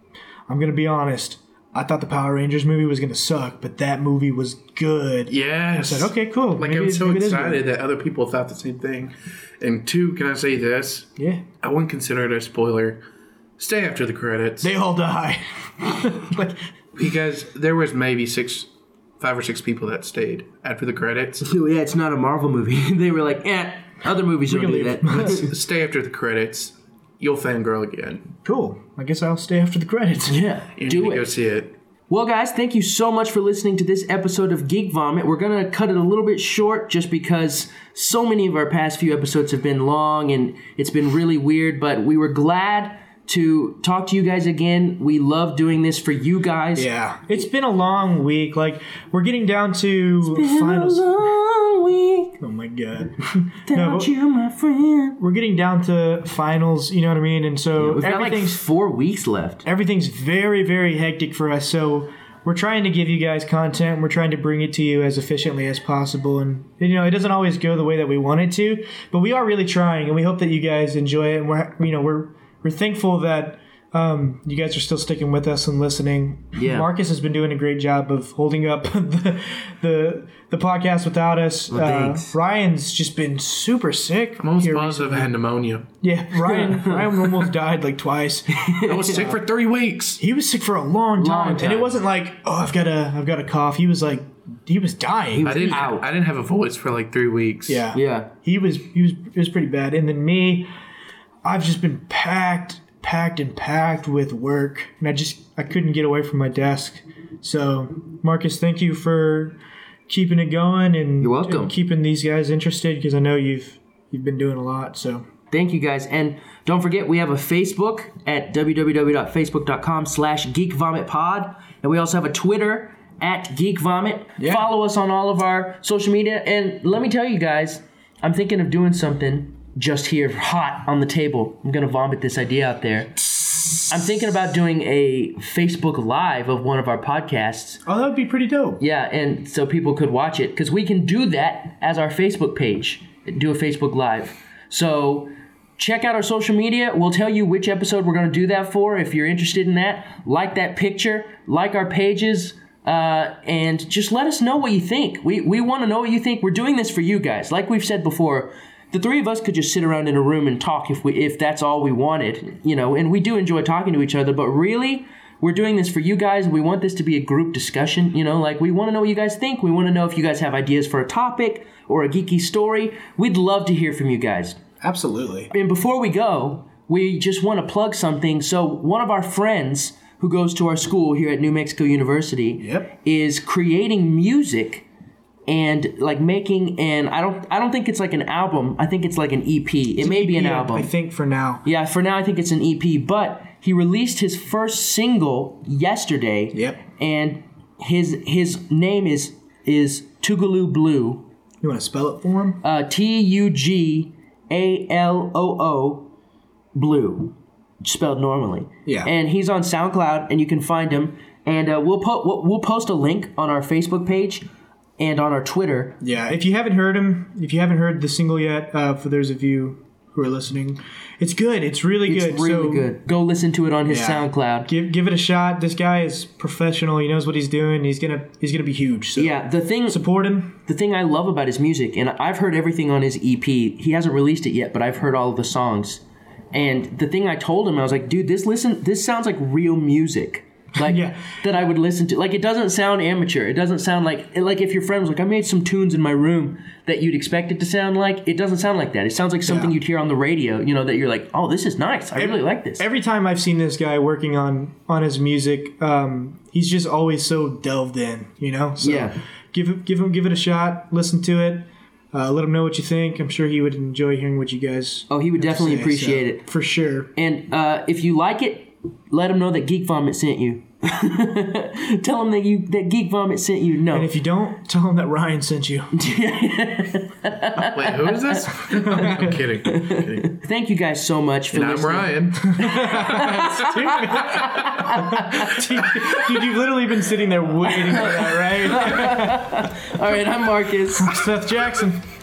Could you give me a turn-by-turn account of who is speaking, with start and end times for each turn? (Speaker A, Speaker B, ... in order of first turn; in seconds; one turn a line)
Speaker A: 0.5-7.6
Speaker B: 5.3-13.0
Speaker A: 11.2-11.4
Speaker B: 13.6-14.7
Speaker A: 14.6-16.6
Speaker B: 16.9-18.7
Speaker B: 19.2-21.4
Speaker C: 21.4-25.5
Speaker A: 24.5-25.5
Speaker B: 25.1-28.2
Speaker A: 28.4-30.4
Speaker C: 30.2-31.3
Speaker B: 30.8-31.7
Speaker C: 32.1-47.5
Speaker A: 46.7-51.2
Speaker C: 50.2-52.3
Speaker A: 52.4-54.1
Speaker C: 53.6-55.2
Speaker A: 55.2-58.6
Speaker C: 57.8-59.6
Speaker A: 59.6-85.3
Speaker C: 76.5-76.9
Speaker C: 81.7-82.3
Speaker B: 84.4-85.8
Speaker A: 86.0-89.4
Speaker C: 86.4-87.5
Speaker C: 88.5-89.1
Speaker B: 88.7-90.2
Speaker A: 90.2-95.9
Speaker C: 91.2-92.0
Speaker C: 95.3-96.1
Speaker B: 95.4-97.8
Speaker A: 97.7-100.7
Speaker C: 97.9-98.3
Speaker A: 101.4-115.2
Speaker C: 111.2-111.7
Speaker C: 115.5-133.2
Speaker A: 124.4-124.7
Speaker C: 133.9-137.8
Speaker A: 137.8-138.8
Speaker C: 138.8-174.6
Speaker A: 174.8-175.5
Speaker C: 175.5-184.8
Speaker A: 182.6-182.9
Speaker C: 185.5-190.9
Speaker A: 190.0-191.6
Speaker C: 191.6-201.2
Speaker A: 196.5-196.8
Speaker A: 201.6-202.6
Speaker C: 202.6-206.1
Speaker C: 206.7-214.4
Speaker A: 208.8-209.1
Speaker C: 215.0-215.9
Speaker A: 216.0-222.9
Speaker C: 222.1-224.7
Speaker A: 223.9-230.6
Speaker C: 229.2-230.0
Speaker C: 230.6-252.8
Speaker A: 240.8-241.4
Speaker A: 249.4-249.7
Speaker A: 252.1-267.1
Speaker C: 258.8-259.2
Speaker C: 265.1-266.4
Speaker C: 267.1-274.1
Speaker A: 273.9-275.9
Speaker C: 275.9-286.4
Speaker B: 277.6-280.2
Speaker A: 278.8-279.4
Speaker B: 281.5-285.0
Speaker A: 282.4-289.6
Speaker C: 287.6-291.2
Speaker A: 290.9-292.0